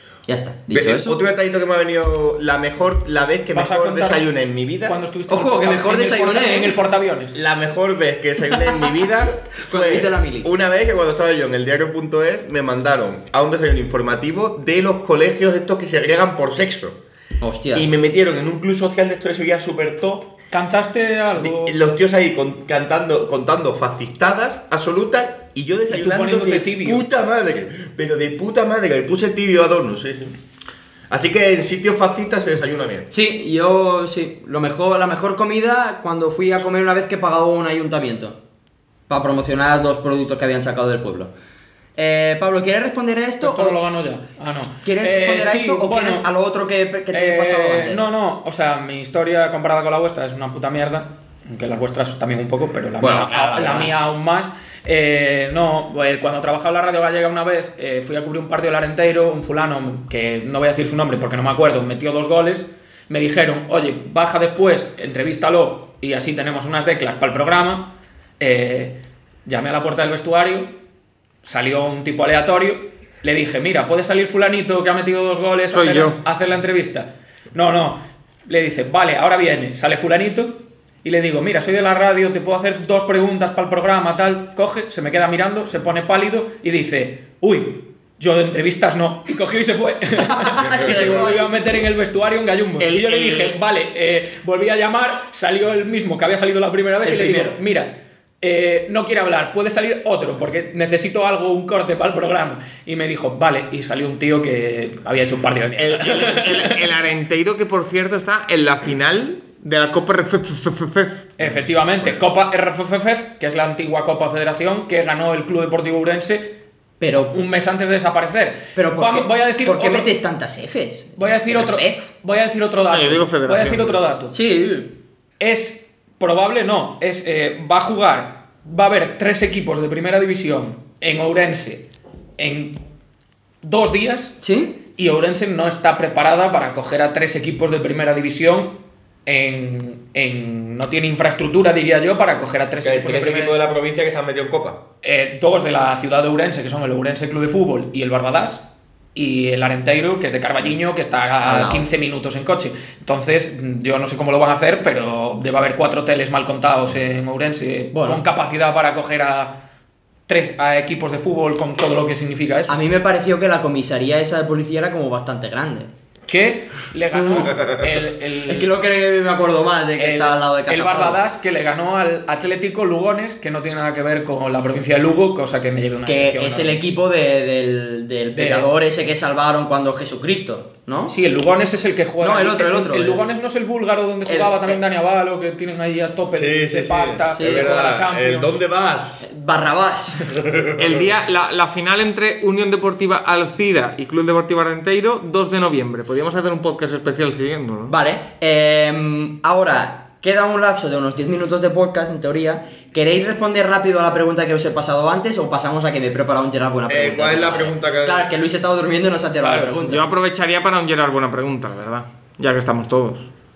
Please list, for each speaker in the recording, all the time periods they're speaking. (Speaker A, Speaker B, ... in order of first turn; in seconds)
Speaker A: 0.3-1.2, 5.3-6.8, 9.6-10.5, 17.4-17.9, 33.1-38.4, 39.1-41.3, 42.0-43.8, 44.8-48.0, 53.0-53.9, 90.2-91.5, 97.0-97.5, 117.0-117.3, 118.8-122.1, 124.3-124.9, 134.4-134.8, 151.4-151.8, 157.9-158.2, 162.7-165.9, 168.5-171.2, 176.1-181.1, 182.2-183.2, 184.2-184.8, 187.3-187.7, 189.2-190.3, 197.9-210.0
Speaker B: 0.7-5.0, 7.3-17.0, 17.7-20.3, 21.4-30.4, 31.1-33.1, 142.8-144.8, 186.3-189.2, 190.3-191.1, 206.9-208.3
Speaker C: 3.5-4.3, 4.8-7.3, 20.5-21.8, 25.9-27.0, 43.4-46.2, 47.1-70.7, 71.4-106.9, 111.4-116.5, 117.3-120.1, 121.2-124.3, 125.4-131.8, 132.4-132.8, 133.6-134.4, 134.9-143.6, 145.0-159.5, 160.3-162.8, 166.3-168.7, 170.0-176.8, 178.3-178.7, 181.1-188.6, 209.4-209.7
Speaker D: 75.7-76.2, 92.8-93.6, 105.8-111.3, 122.9-124.0, 190.8-197.9, 209.8-213.3